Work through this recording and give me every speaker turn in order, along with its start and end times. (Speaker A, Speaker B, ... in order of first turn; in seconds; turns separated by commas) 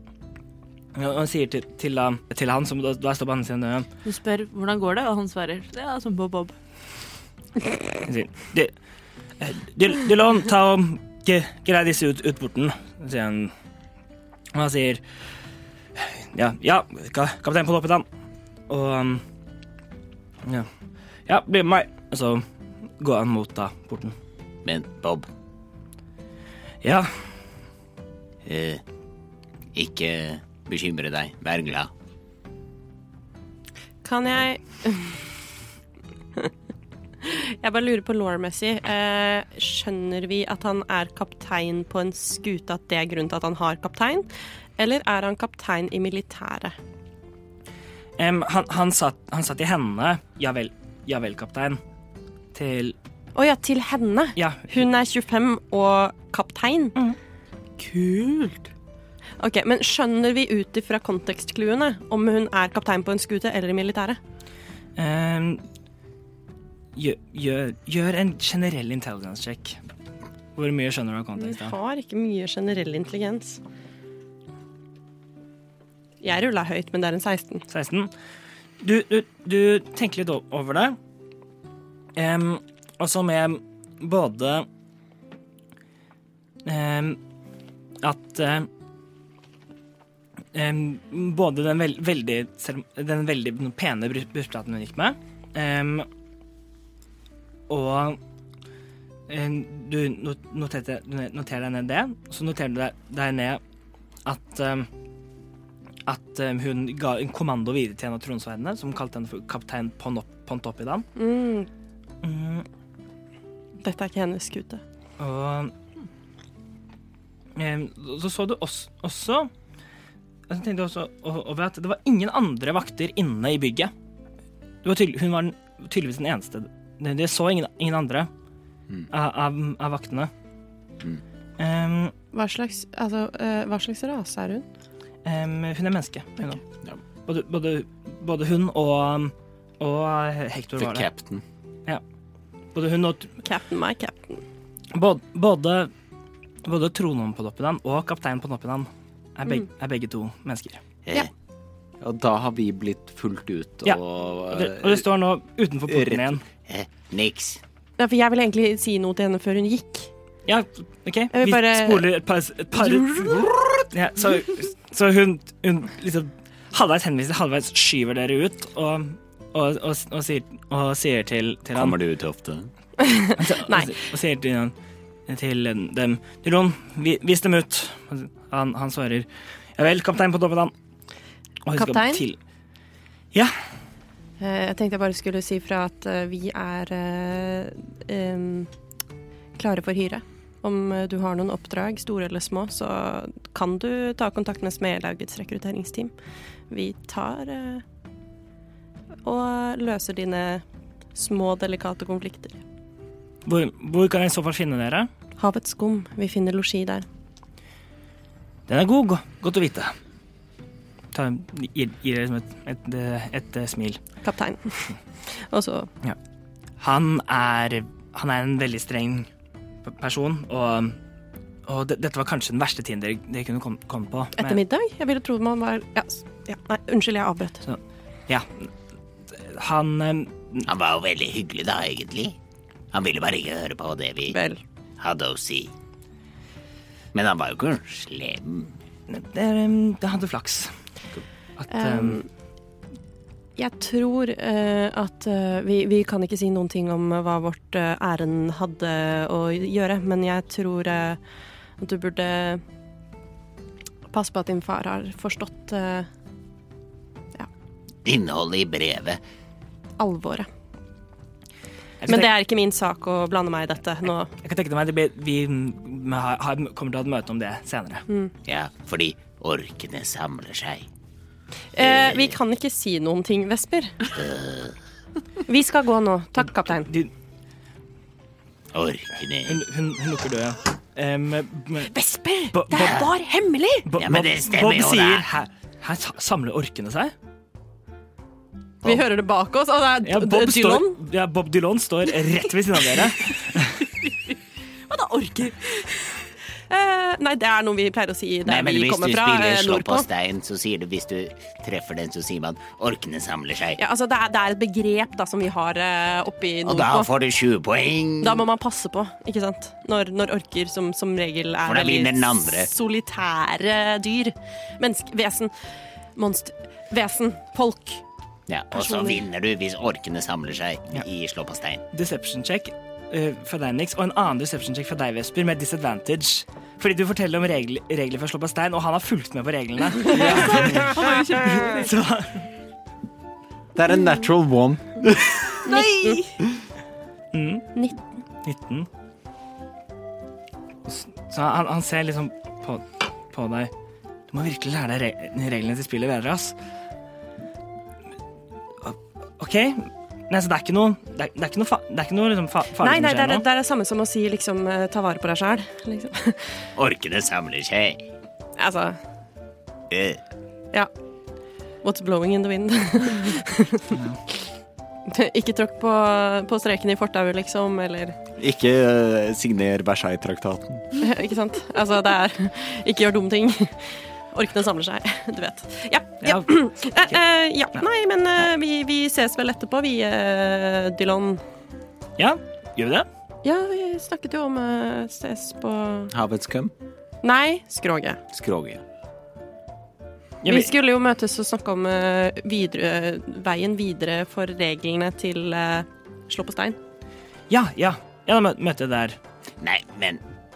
Speaker A: 0.9-3.9, Speaker B: 4.0-6.5, Speaker A: 8.0-8.7, Speaker A: 9.4-13.5, Speaker A: 14.5-15.0, Speaker A: 16.0-18.1, Speaker A: 18.7-19.2, Speaker A: 21.2-22.4, Speaker A: 23.0-24.1, Speaker C: 24.6-25.3, Speaker A: 26.8-27.1, Speaker C: 28.4-28.8, Speaker C: 29.7-31.9, Speaker D: 34.0-35.2, Speaker D: 37.2-46.8, Speaker A: 48.2-51.8, Speaker A: 52.5-52.9, Speaker D: 53.3-56.9, Speaker A: 54.4-54.8, Speaker B: 57.8-58.7, Speaker D: 59.4-64.2, Speaker A: 65.0-65.6, Speaker A: 66.9-69.8, Speaker A: 70.5-71.8, Speaker D: 71.4-73.6, Speaker D: 76.2-77.6, Speaker A: 77.7-78.1, Speaker A: 78.8-81.0, Speaker A: 82.2-84.7, Speaker A: 86.6-87.2, Speaker A: 88.0-88.7, Speaker A: 90.5-96.1, Speaker A: 97.7-98.2, Speaker A: 99.3-103.6, Speaker A: 104.2-104.9, Speaker A: 106.0-111.0, Speaker D: 111.2-111.7, Speaker A: 112.2-112.7, Speaker D: 113.8-114.8, Speaker A: 115.2-115.7, Speaker A: 117.5-119.5, Speaker A: 120.5-123.9, Speaker A: 124.8-128.3, Speaker A: 129.1-130.3, Speaker A: 131.6-132.1, Speaker D: 132.3-134.6, Speaker A: 135.2-136.6, Speaker A: 137.2-141.1, Speaker E: 140.8-141.4, Speaker A: 142.7-143.3, Speaker D: 143.4-144.4, Speaker A: 144.9-145.9, Speaker A: 146.6-150.8, Speaker E: 152.0-155.0, Speaker A: 153.8-156.4, Speaker E: 155.9-156.4, Speaker C: 156.7-157.6, Speaker D: 158.0-160.1, Speaker A: 160.5-171.9, Speaker D: 161.3-162.1, Speaker D: 162.8-163.1, Speaker E: 163.3-163.8, Speaker E: 171.7-172.7, Speaker D: 173.0-173.9, Speaker A: 173.4-174.7, Speaker A: 175.3-180.7, Speaker A: 181.7-182.4, Speaker D: 181.8-182.2, Speaker D: 184.4-188.7, Speaker D: 189.6-196.1, Speaker D: 196.7-197.8, Speaker D: 199.2-200.6, Speaker D: 201.1-202.6, Speaker A: 203.4-205.1, Speaker D: 205.4-207.0, Speaker A: 208.7-209.9, Speaker A: 211.1-214.0, Speaker D: 214.2-215.9, Speaker A: 216.8-219.3, Speaker A: 219.8-221.0, Speaker A: 221.7-224.6, Speaker D: 224.4-227.6, Speaker A: 227.7-228.7, Speaker A: 229.3-230.7, Speaker C: 230.7-232.4, Speaker C: 232.9-234.4, Speaker D: 234.3-234.6, Speaker C: 235.0-235.7, Speaker C: 237.1-238.8, Speaker A: 239.1-240.7, Speaker A: 241.6-242.2, Speaker D: 241.7-242.3, Speaker D: 243.6-251.2, Speaker D: 251.8-252.6, Speaker D: 254.1-256.1, Speaker C: 258.0-259.2, Speaker D: 260.0-260.5, Speaker A: 262.0-262.3, Speaker D: 262.1-264.3, Speaker A: 264.4-268.0, Speaker C: 268.4-270.9, Speaker D: 271.7-274.1, Speaker C: 271.8-272.3, Speaker C: 274.1-274.8, Speaker D: 275.5-276.9, Speaker A: 276.4-277.1, Speaker C: 278.7-279.6, Speaker A: 279.5-281.9, Speaker D: 281.9-283.9, Speaker A: 282.5-283.1, Speaker C: 282.7-283.1, Speaker A: 283.8-287.1, Speaker C: 284.0-285.3, Speaker D: 288.8-291.0, Speaker A: 290.0-293.8, Speaker B: 294.9-295.9, Speaker D: 296.7-300.1, Speaker C: 298.4-303.8, Speaker D: 303.8-307.1, Speaker C: 306.6-308.4, Speaker D: 308.2-315.5, Speaker C: 311.6-312.7, Speaker D: 316.1-318.0, Speaker C: 318.5-321.8, Speaker D: 318.7-319.2, Speaker A: 321.9-332.4, Speaker E: 330.1-330.9, Speaker B: 330.2-331.9, Speaker E: 333.7-335.7, Speaker D: 335.7-336.2, Speaker B: 335.7-336.3, Speaker A: 337.3-337.7, Speaker A: 338.4-338.9, Speaker A: 340.8-343.7, Speaker A: 344.3-346.5, Speaker A: 348.8-353.4, Speaker D: 352.8-356.6, Speaker C: 356.8-358.1, Speaker D: 358.6-359.0, Speaker C: 359.9-360.2, Speaker D: 361.8-364.0, Speaker D: 365.1-368.2, Speaker E: 368.4-370.9, Speaker D: 371.0-381.4, Speaker A: 376.2-376.5, Speaker A: 382.2-383.1, Speaker D: 383.4-386.1, Speaker E: 386.1-386.7, Speaker D: 387.2-388.2, Speaker E: 388.3-388.8, Speaker A: 390.4-390.7, Speaker D: 390.4-396.8, Speaker A: 397.5-399.2, Speaker C: 399.6-400.2